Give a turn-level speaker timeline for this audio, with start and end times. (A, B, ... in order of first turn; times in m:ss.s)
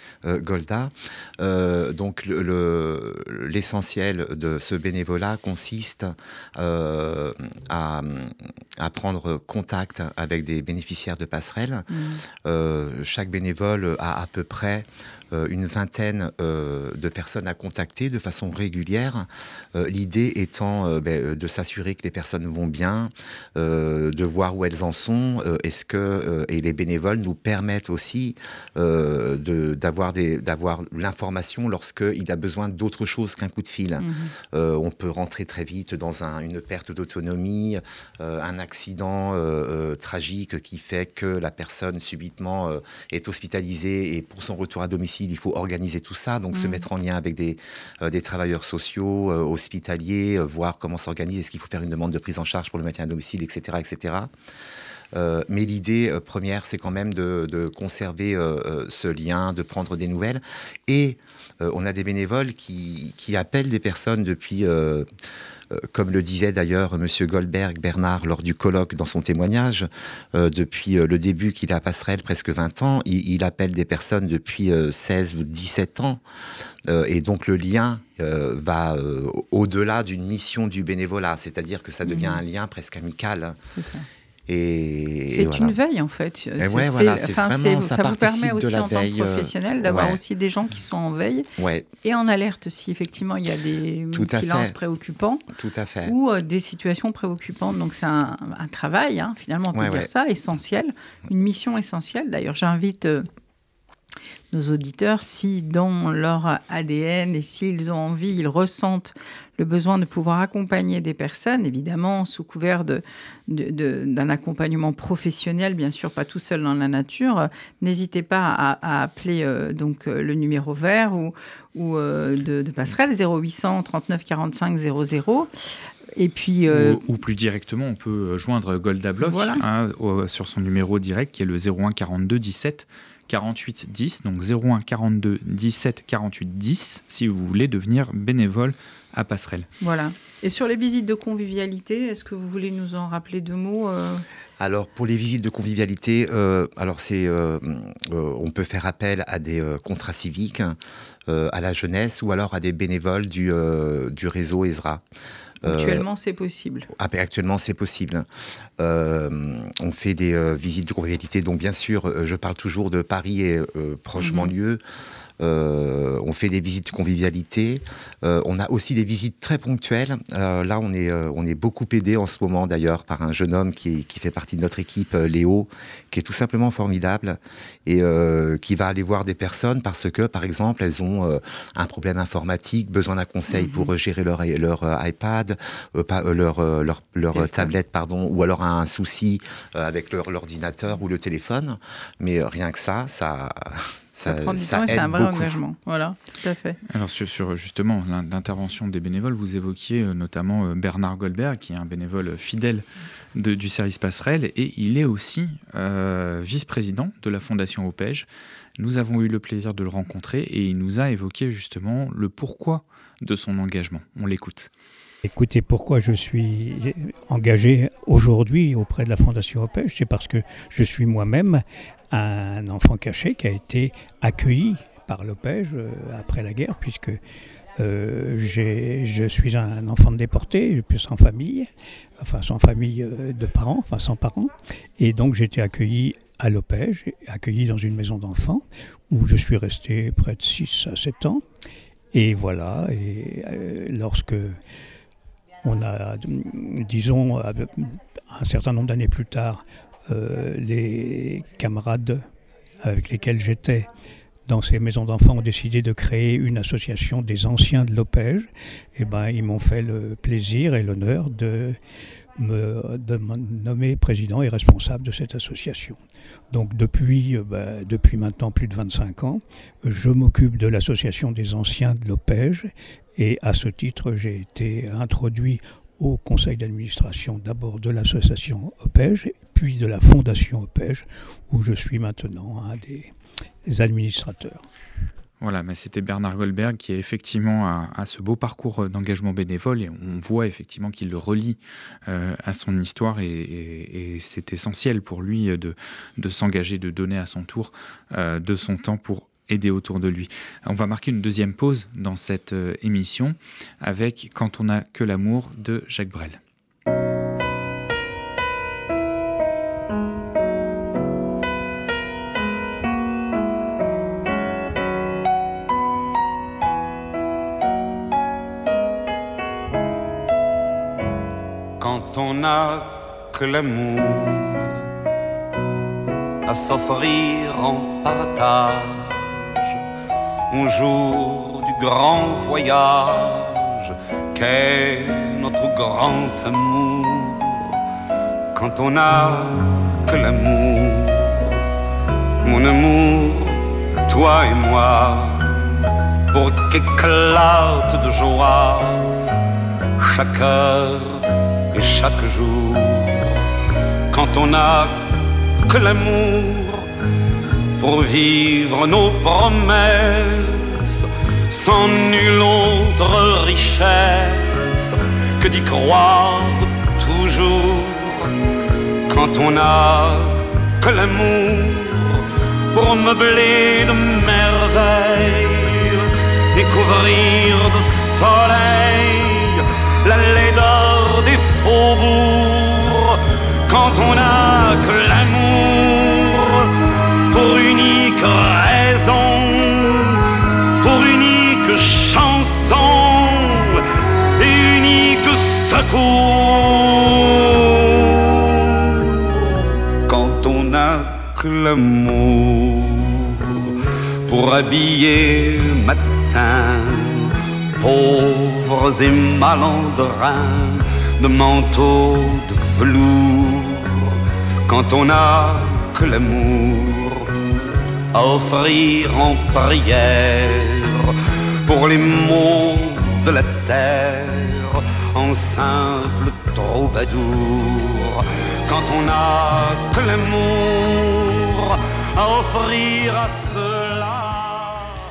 0:00.2-0:11.9 A
0:11.9-0:12.2 B
0:12.4-0:54.3 A
0:34.0-0:34.3 B
0:46.5-0:46.8 B
0:55.1-1:05.0 A
1:05.7-1:16.2 A
1:16.8-1:23.6 A
1:22.0-1:22.4 B
1:23.7-1:24.0 B
1:24.5-1:25.8 A
1:25.3-1:31.5 B
1:26.6-1:30.2 A
1:31.6-1:31.9 A
1:32.0-1:35.4 B
1:34.1-1:34.8 A
1:35.5-1:36.2 A
1:36.0-1:43.3 B
1:39.7-1:40.1 A
1:44.5-2:05.5 B
2:06.2-2:07.0 B
2:06.7-2:19.7 C
2:09.2-2:09.6 B
2:19.8-2:24.2 B
2:24.6-2:30.8 A
2:31.3-2:35.0 A
2:35.6-2:36.0 A
2:35.6-2:36.9 B
2:36.9-2:38.2 A
2:38.8-2:44.8 A
2:44.2-2:44.5 B
2:45.4-3:15.6 A
3:03.5-3:03.9 B
3:07.3-3:07.7 B
3:14.2-3:16.8 B
3:16.9-3:28.2 C
3:28.8-3:34.7 C
3:35.2-3:47.2 D
3:47.8-3:51.7 D
3:52.2-4:01.4 D
4:02.1-4:04.6 D
4:05.6-4:12.2 D
4:12.8-4:13.9 D
4:14.5-4:21.8 D
4:22.4-4:26.0 D
4:26.5-4:43.1 D
4:43.6-4:44.6 D
4:45.4-5:06.4 C
5:21.8-5:24.6 E
5:26.4-5:29.6 E
5:30.5-5:37.7 E
5:38.5-5:41.4 E
5:42.4-5:45.6 E
5:46.3-5:49.1 E
5:50.0-5:53.4 E
5:54.1-5:55.1 E
5:55.6-5:56.8 E
5:57.8-6:08.3 E
6:09.1-6:12.2 E
6:12.7-6:26.7 E
6:27.3-6:30.2 E
6:30.8-6:33.8 E
6:34.4-6:43.7 E
6:44.3-6:54.1 E
6:54.7-6:57.2 E
6:58.1-7:15.0 E